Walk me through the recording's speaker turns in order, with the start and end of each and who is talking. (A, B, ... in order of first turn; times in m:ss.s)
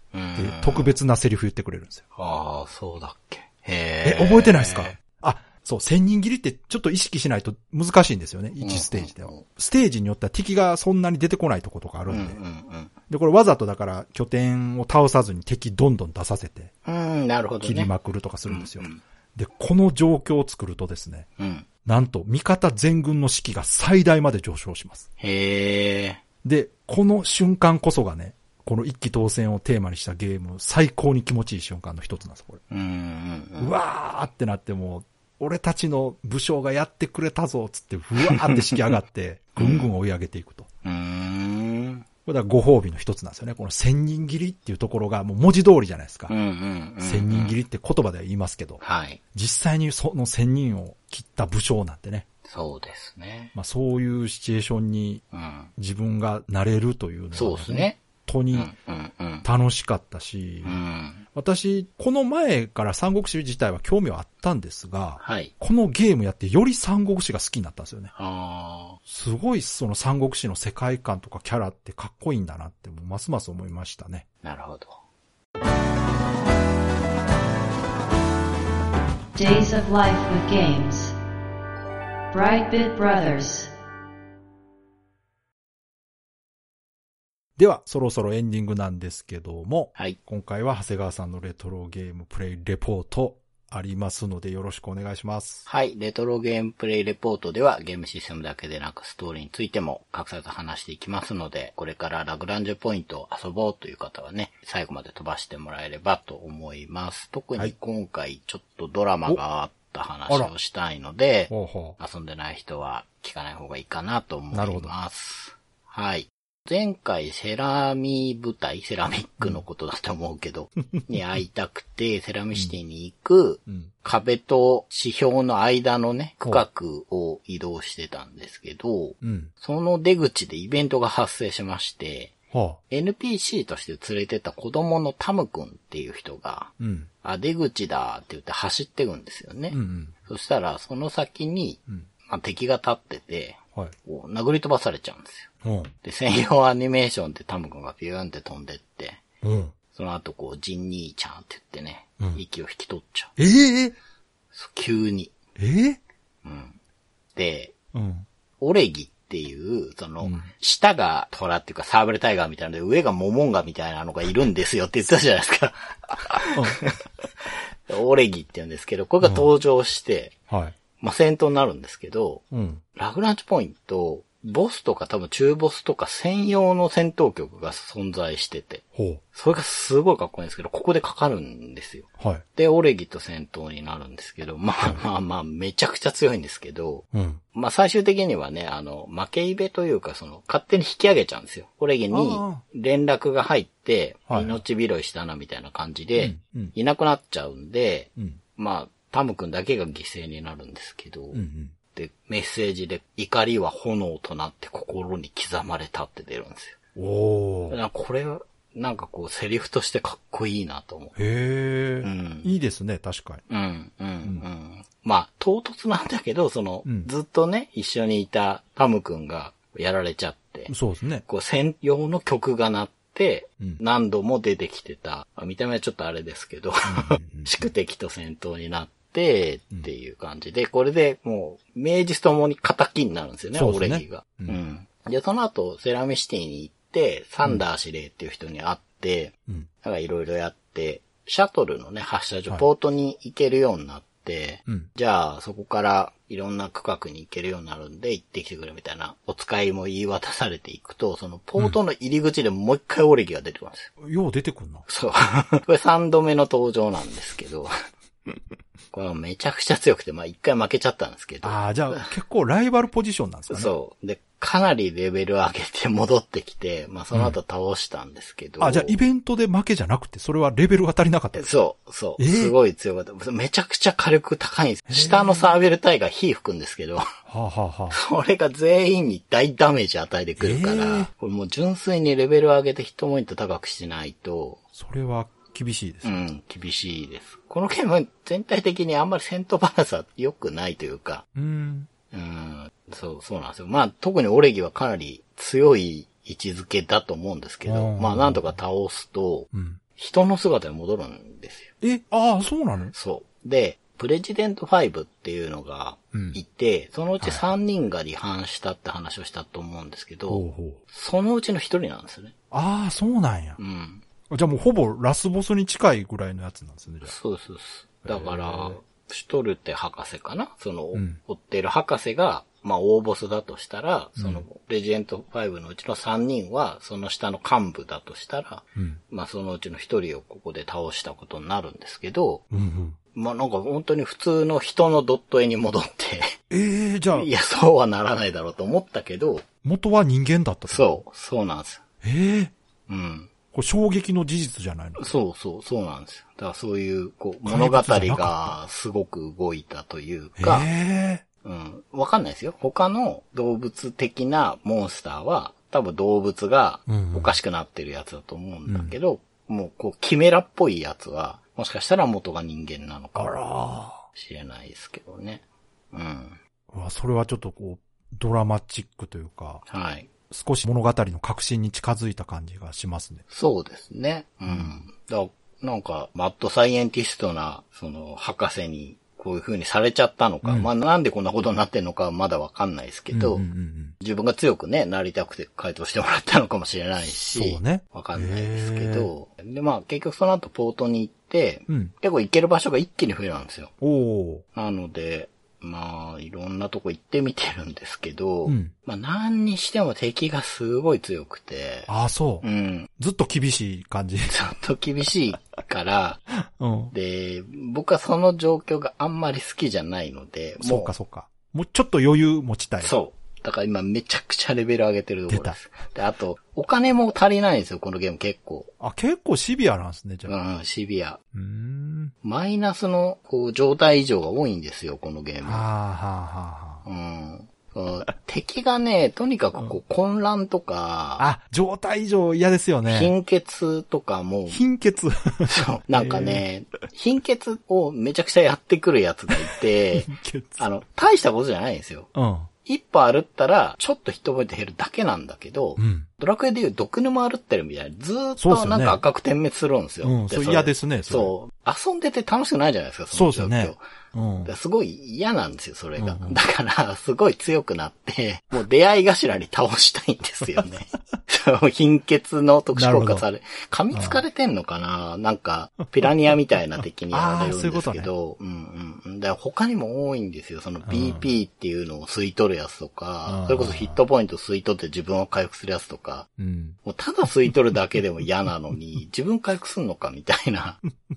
0:00.1-0:00.9 A
0:00.4-0:02.0 B
0:02.1-0:05.0 A
0:04.0-0:12.4 B
0:08.6-0:09.4 A
0:12.1-0:12.9 A
0:13.1-0:16.7 B
0:16.8-0:17.9 A
0:17.6-0:21.3 B
0:18.5-0:19.0 A
0:21.4-0:21.6 A
0:21.8-0:25.0 B
0:25.2-0:26.2 A
0:26.4-0:32.6 B
0:32.7-0:33.7 A
0:33.6-0:40.7 B
0:38.2-0:38.8 A
0:39.6-0:39.9 A
0:40.8-0:42.0 A
0:42.2-0:46.3 B
0:46.3-0:47.6 A
0:47.0-0:48.8 B
0:48.8-0:49.2 A
0:49.3-0:52.2 B
0:52.4-0:53.5 A
0:53.5-0:55.2 B
0:55.3-0:55.7 A
0:55.8-0:58.7 B
0:57.3-0:58.0 A
0:58.5-0:59.4 A
0:59.4-1:00.8 B
1:00.6-1:01.2 A
1:01.3-1:08.1 B
1:05.2-1:05.5 A
1:08.1-1:09.0 A
1:09.1-1:14.2 B
1:14.4-1:15.0 A
1:19.3-1:21.1 C
1:22.3-1:23.7 C
1:27.6-1:35.6 B
1:35.7-2:12.3 A
1:51.5-1:52.0 B
1:54.5-1:54.9 B
2:09.2-2:09.5 B
2:12.5-2:12.8 B
2:12.9-2:25.5 A
2:16.8-2:17.1 B
2:19.7-2:20.1 B
2:25.6-2:25.9 B
2:26.0-2:29.2 A
2:29.4-2:29.7 B
2:29.9-2:33.3 A
2:33.4-2:34.0 B
2:34.5-2:35.3 A
2:35.6-2:36.0 B
2:36.4-2:36.8 A
2:37.3-2:37.7 A
2:37.9-2:38.2 B
2:38.6-2:50.4 A
2:40.2-2:40.5 B
2:46.5-2:46.8 B
2:49.2-2:49.5 B
2:50.5-2:50.8 B
2:51.0-3:21.4 A
2:52.5-2:52.8 B
2:58.9-2:59.2 B
3:02.2-3:02.4 B
3:07.1-3:07.4 B
3:12.1-3:12.6 B
3:14.3-3:14.6 B
3:16.2-3:16.7 B
3:21.3-3:21.7 B
3:21.9-3:26.8 A
3:27.0-3:27.8 B
3:27.7-3:31.2 A
3:31.2-3:33.4 B
3:32.0-3:32.5 A
3:33.5-3:40.7 A
3:36.8-3:37.1 B
3:40.7-3:41.2 B
3:41.2-4:13.9 A
3:46.8-3:47.7 B
3:53.5-3:54.6 B
4:14.0-4:14.8 B
4:14.9-4:17.7 A
4:18.9-4:22.1 A
4:21.4-4:23.7 B
4:23.5-4:29.0 A
4:27.1-4:27.4 B
4:28.6-4:31.5 B
4:31.3-4:37.1 A
4:32.2-4:32.5 B
4:34.9-4:35.5 B
4:37.3-4:38.0 B
4:37.9-4:44.6 A
4:40.4-4:41.1 B
4:44.7-4:46.2 B
4:46.0-4:51.2 A
4:51.3-4:51.9 B
4:52.1-5:01.7 A
4:57.6-4:58.5 B
4:59.5-4:59.8 B
5:01.8-5:02.9 B
5:02.9-5:12.3 A
5:06.1-5:06.4 B
5:07.2-5:07.5 B
5:10.3-5:10.8 B
5:12.5-5:13.6 B
5:13.6-5:14.0 A
5:14.3-5:17.1 B
5:17.0-5:32.4 A
5:18.0-5:18.8 B
5:20.9-5:21.2 B
5:24.2-5:24.4 B
5:32.5-5:33.0 B
5:33.1-5:36.3 A
5:36.5-5:37.3 B
5:37.1-5:39.4 A
5:39.6-5:41.0 B
5:40.7-5:41.8 A
5:42.0-5:42.5 B
5:42.9-5:43.3 A
5:43.5-5:45.1 B
5:45.0-5:50.7 A
5:47.4-5:48.6 B
5:50.4-5:51.2 B
5:51.4-6:03.4 A
5:56.9-5:57.4 B
5:58.7-5:59.0 B
6:03.2-6:04.0 B
6:04.1-6:06.4 A
6:06.7-6:09.6 B
6:09.7-6:10.1 A
6:10.3-6:13.2 B
6:13.3-6:23.4 A
6:14.5-6:14.7 B
6:20.4-6:20.7 B
6:23.1-6:23.9 B
6:24.0-6:33.7 A
6:27.2-6:29.1 B
6:31.7-6:31.9 B
6:33.8-6:34.4 B
6:34.5-6:41.9 A
6:38.4-6:38.7 B
6:41.9-6:42.4 B
6:42.4-6:42.9 A
6:43.0-6:44.3 B
6:44.2-6:46.2 A
6:46.4-6:46.9 B
6:46.9-6:50.9 A
6:50.6-6:52.9 B
6:52.8-6:58.7 A
6:55.3-6:55.6 B
6:58.8-7:00.3 B
7:00.3-7:01.2 A
7:01.3-7:02.1 B
7:02.2-7:05.6 A
7:05.4-7:06.8 B
7:06.8-7:11.2 A
7:11.2-7:13.1 B
7:12.9-7:14.6 A
7:14.5-7:16.4 B
7:15.5-7:22.1 A
7:20.0-7:20.6 B
7:22.1-7:22.5 B
7:22.6-7:33.8 A
7:25.8-7:26.1 B
7:28.4-7:29.0 B
7:30.0-7:31.3 B
7:33.1-7:34.5 B
7:34.4-7:56.3 A
7:36.0-7:36.4 B
7:42.7-7:43.2 B
7:43.9-7:44.2 B
7:47.1-7:48.1 B
7:50.8-7:51.2 B
7:53.3-7:54.0 B
7:56.4-7:56.8 B
7:56.8-8:00.8 A